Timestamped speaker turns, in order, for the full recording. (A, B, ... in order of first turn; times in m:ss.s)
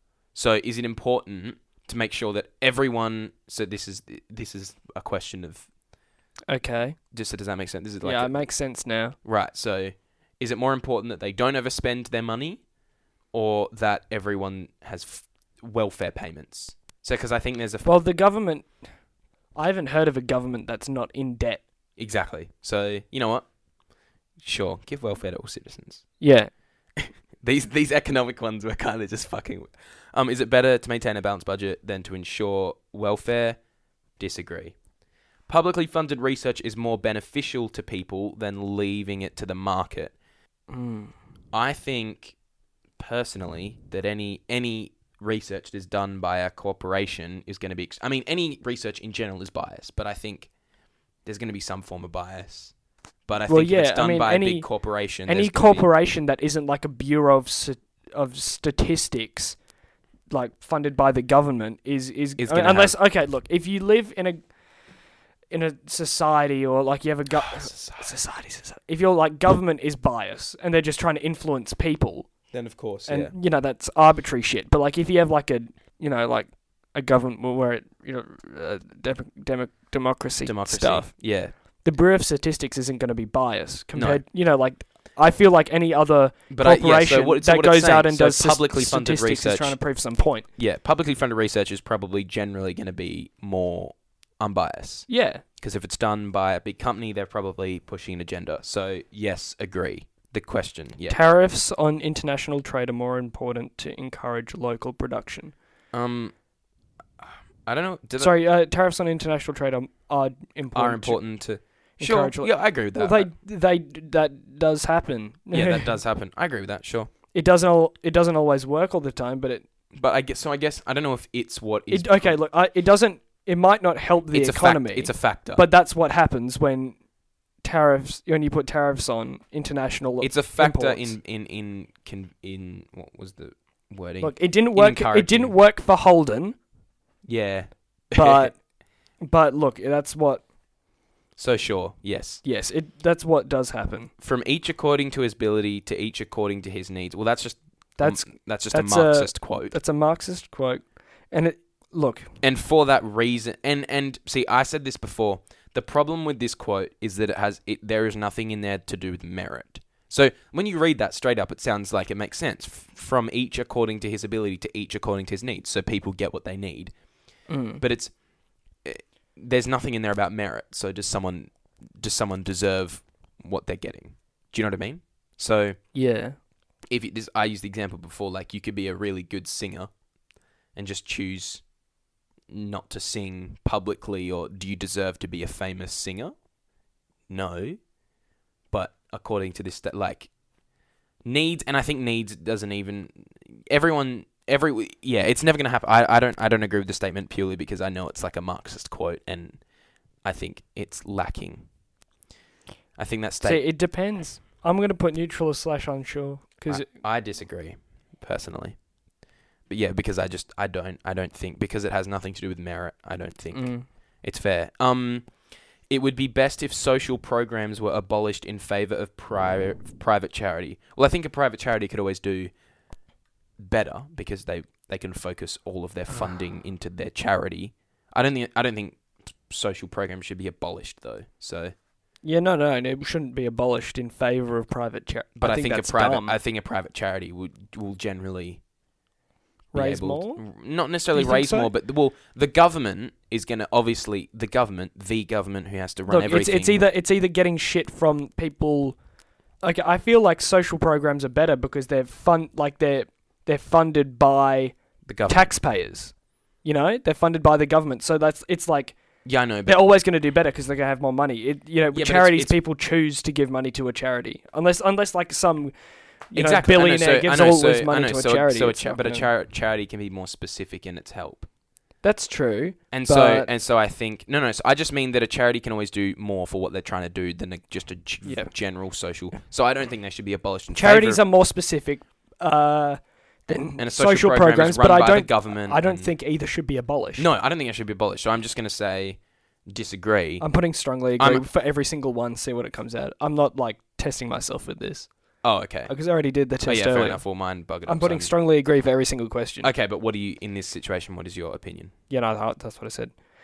0:00.3-0:05.7 A
0:06.5-0:07.0 B
0:07.1-0:08.4 A
0:08.0-0:09.2 B
0:09.2-0:12.6 A
0:13.3-0:17.9 A
0:17.8-0:18.7 B
0:19.5-0:21.6 B
0:22.0-0:23.4 A
0:24.4-0:26.1 A
0:26.2-0:26.5 B
0:27.0-0:33.6 A
0:34.2-0:34.7 A
0:35.5-0:40.1 A
0:40.7-0:41.1 B
0:41.5-0:42.4 A
0:43.0-0:50.5 A
0:51.2-0:52.7 A
0:53.3-0:55.9 A
0:53.5-0:54.7 B
0:55.2-0:59.6 B
1:00.3-1:04.4 B
1:02.4-1:03.0 A
1:05.5-1:12.3 B
1:07.3-1:08.1 A
1:12.5-1:13.3 A
1:13.1-1:21.1 B
1:20.4-1:21.5 A
1:21.8-1:30.5 B
1:23.9-1:24.2 A
1:26.5-1:29.8 A
1:30.6-1:41.2 A
1:35.1-1:35.4 B
1:41.1-1:45.5 B
1:45.9-1:46.3 A
1:47.2-1:48.3 A
1:48.2-1:51.2 B
1:50.7-1:53.3 A
1:52.0-1:56.0 B
1:55.5-1:57.1 A
1:57.3-1:59.6 B
1:59.9-2:02.3 A
2:01.9-2:07.0 B
2:04.3-2:05.6 A
2:07.6-2:11.2 B
2:10.2-2:15.5 A
2:14.2-2:16.6 B
2:17.2-2:18.5 A
2:18.1-2:18.6 B
2:19.2-2:20.4 B
2:21.4-2:22.4 A
2:22.4-2:24.1 B
2:24.2-2:29.7 A
2:28.0-2:32.3 B
2:32.4-2:46.9 A
2:47.5-2:47.8 B
2:47.8-2:48.1 A
2:48.8-2:55.8 A
2:55.9-2:56.4 B
2:56.9-2:59.9 A
3:00.7-3:01.6 A
3:02.5-3:06.3 A
3:07.3-3:07.8 A
3:08.7-3:10.3 A
3:11.2-3:19.6 A
3:20.2-3:21.6 A
3:23.0-3:23.6 A
3:23.4-3:26.9 B
3:26.7-3:28.8 A
3:29.7-3:42.5 A
3:33.5-3:33.8 B
3:43.6-3:51.7 A
3:52.2-3:56.4 B
3:55.4-3:58.6 A
3:59.7-4:00.4 B
3:59.7-4:06.8 A
4:01.1-4:01.7 B
4:06.1-4:09.0 B
4:09.6-4:19.0 B
4:15.0-4:15.5 A
4:19.2-4:19.8 A
4:19.6-4:25.7 B
4:21.9-4:22.6 A
4:26.3-4:29.3 B
4:26.3-4:31.5 A
4:32.0-4:33.5 B
4:32.9-4:41.2 A
4:38.2-4:38.5 B
4:40.7-4:47.3 B
4:43.8-4:46.1 A
4:47.2-4:50.5 A
4:50.4-4:55.1 B
4:51.2-4:51.4 A
4:55.4-4:55.9 A
4:55.8-4:57.2 B
4:56.6-4:58.3 A
4:57.8-4:59.7 B
4:59.6-5:01.9 A
5:02.1-5:03.1 B